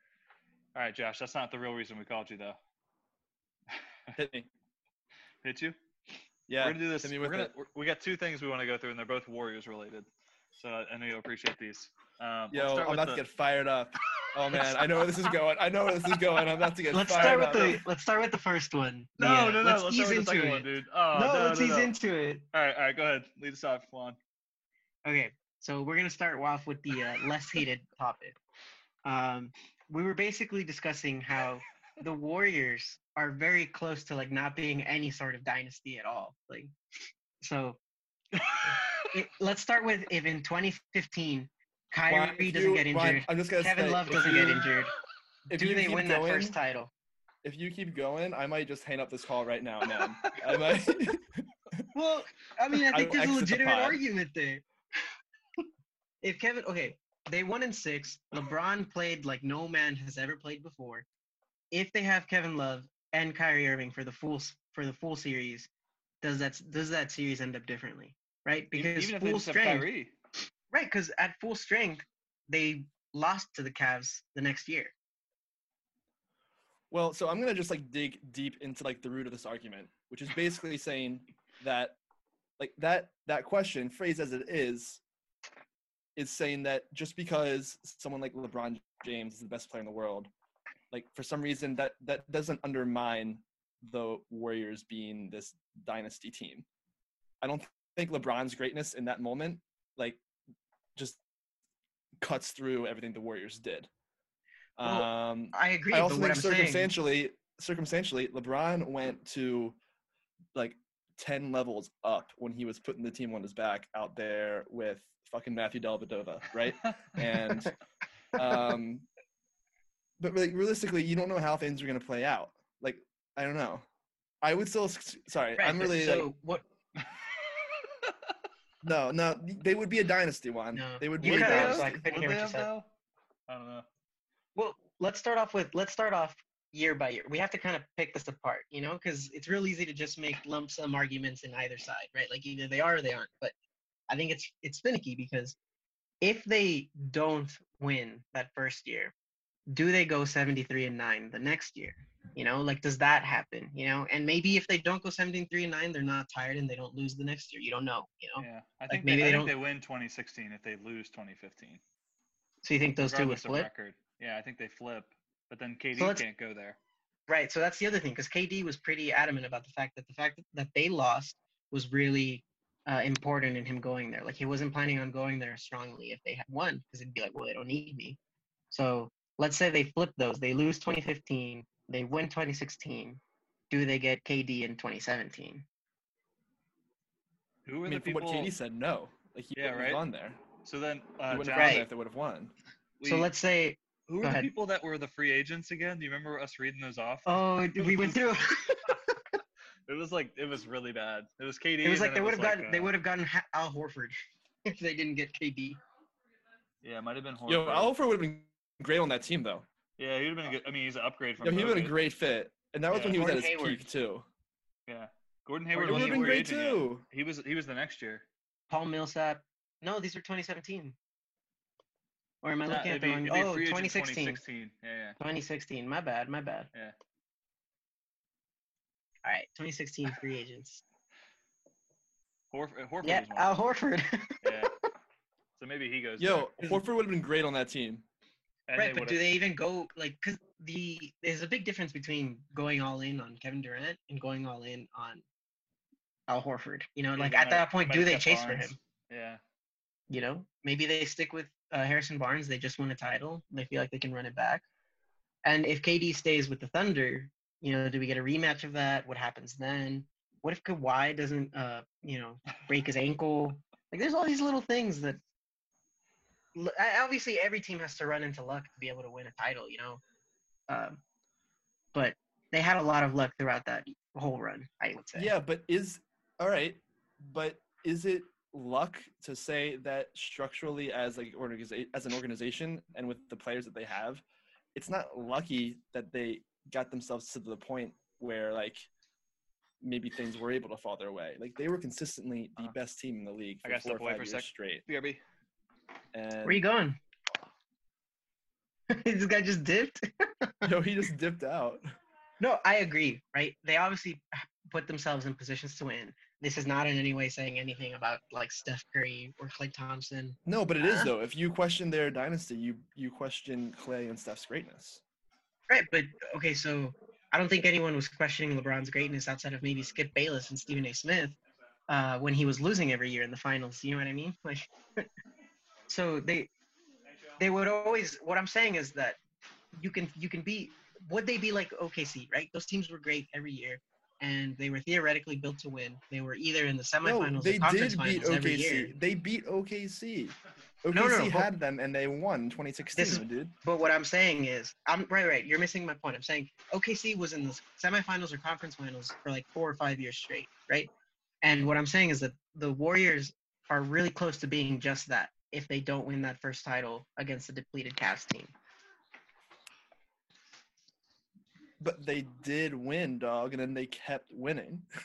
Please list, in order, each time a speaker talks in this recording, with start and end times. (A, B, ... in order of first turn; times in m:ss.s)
0:00.8-0:02.6 A
0:04.2-0:04.5 B
0:05.4-0:05.8 A
0:06.5-0:07.5 B
0:06.6-0:13.2 A
0:12.5-0:17.8 B
0:14.5-0:15.0 A
0:16.9-0:22.5 C
0:17.1-0:17.7 A
0:19.2-0:22.0 A
0:22.5-0:24.2 A
0:25.0-0:28.4 C
0:29.0-0:36.7 C
0:37.4-0:37.8 C
0:38.4-0:39.1 A
0:38.6-0:44.9 C
0:42.1-0:44.7 B
0:45.5-0:46.6 B
0:45.6-0:46.9 C
0:47.4-0:51.8 B
0:50.0-0:50.3 A
0:51.9-0:54.6 C
0:52.9-0:54.0 B
0:56.2-1:01.1 C
1:01.7-1:05.7 C
1:06.2-1:09.9 C
1:08.7-1:10.2 A
1:10.7-1:14.9 C
1:16.9-1:22.0 B
1:22.6-1:25.0 B
1:26.2-1:30.3 B
1:30.9-1:36.6 B
1:37.4-1:40.2 B
1:42.2-1:43.9 B
1:44.8-1:49.8 B
1:44.8-1:46.9 C
1:50.6-1:57.8 B
1:58.4-1:59.1 B
2:00.2-2:03.8 B
2:04.4-2:06.3 B
2:05.6-2:06.6 C
2:07.0-2:08.3 A
2:08.8-2:12.1 B
2:10.7-2:12.7 C
2:11.2-2:12.9 A
2:13.5-2:13.9 A
2:14.6-2:23.5 C
2:24.1-2:25.6 C
2:26.2-2:29.1 C
2:29.7-2:39.5 C
2:38.4-2:41.8 A
2:42.6-2:43.7 C
2:43.0-2:46.8 A
2:46.0-2:46.2 C
2:47.3-2:58.2 C
2:58.7-3:05.7 C
3:07.7-3:08.5 A
3:07.9-3:10.4 B
3:09.6-3:10.0 A
3:10.6-3:11.9 A
3:11.3-3:12.5 B
3:11.6-3:11.8 C
3:13.0-3:13.3 A
3:13.0-3:14.5 C
3:14.1-3:18.3 A
3:17.3-3:19.0 C
3:19.9-3:22.9 A
3:21.8-3:25.8 C
3:26.8-3:27.9 A
3:27.5-3:29.7 B
3:30.0-3:32.0 A
3:31.4-3:34.3 B
3:32.9-3:33.2 A
3:32.9-3:33.8 C
3:34.9-3:38.2 A
3:35.7-3:36.4 C
3:35.8-3:37.0 B
3:38.7-3:41.0 C
3:42.4-3:44.4 C
3:42.7-3:45.2 A
3:45.2-3:46.7 C
3:49.2-3:50.8 C
3:52.5-3:53.6 A
3:53.0-3:54.5 C
3:54.4-3:54.7 A
3:55.6-3:56.8 A
3:56.2-3:58.1 B
3:58.7-3:59.2 A
3:58.8-4:05.2 C
4:06.3-4:08.8 C
4:07.2-4:09.4 A
4:10.1-4:14.6 C
4:15.4-4:25.2 C
4:26.6-4:30.0 C
4:30.7-4:31.0 C
4:31.9-4:35.3 C
4:35.2-4:44.2 B
4:44.8-4:48.9 B
4:49.8-4:54.8 B
4:53.6-4:55.2 A
4:56.1-4:56.6 B
4:56.4-4:57.0 C
4:58.9-5:00.7 C
5:00.6-5:01.8 B
5:02.4-5:11.1 C
5:10.5-5:15.0 B
5:15.7-5:21.3 C
5:21.9-5:25.1 C
5:25.9-5:26.5 C
5:27.4-5:29.2 C
5:29.7-5:39.0 C
5:37.0-5:43.6 B
5:40.9-5:41.5 C
5:43.0-5:50.9 C
5:51.4-5:58.5 C
6:01.8-6:04.9 B